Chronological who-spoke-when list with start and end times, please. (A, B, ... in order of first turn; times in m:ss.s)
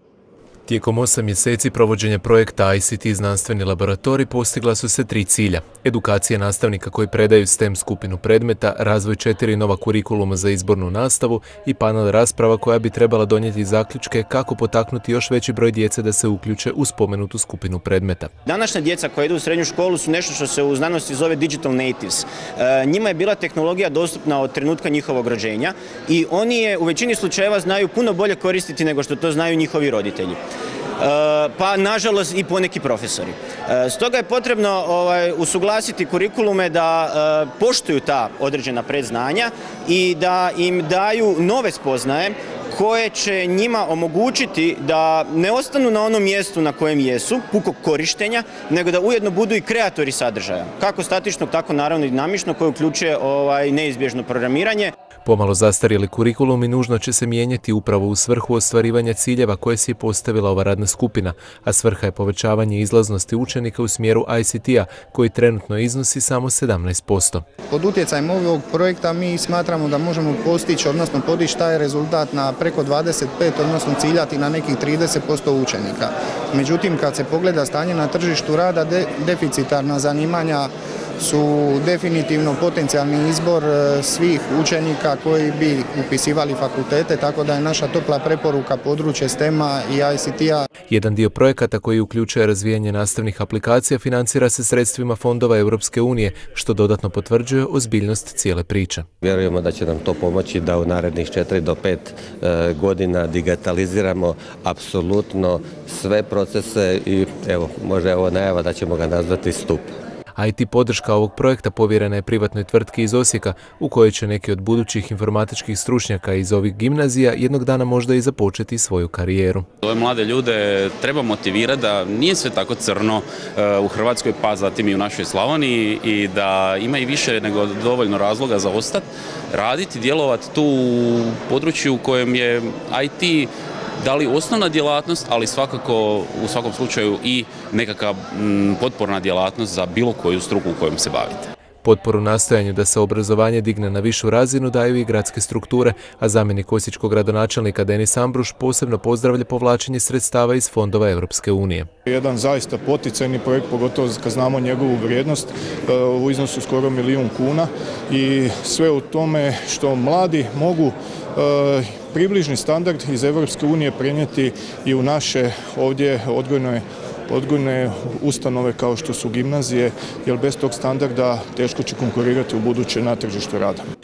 0:00.7-0:18.3 A
0:18.4-0:30.4 B
0:31.0-0:54.9 B
0:55.2-1:07.4 A
1:07.7-1:30.7 C
1:30.9-1:39.1 A
1:39.2-1:49.9 D
1:50.4-1:59.7 A
1:59.8-2:13.5 E
2:14.0-2:21.5 E
2:21.8-2:31.9 A
2:32.1-2:53.8 F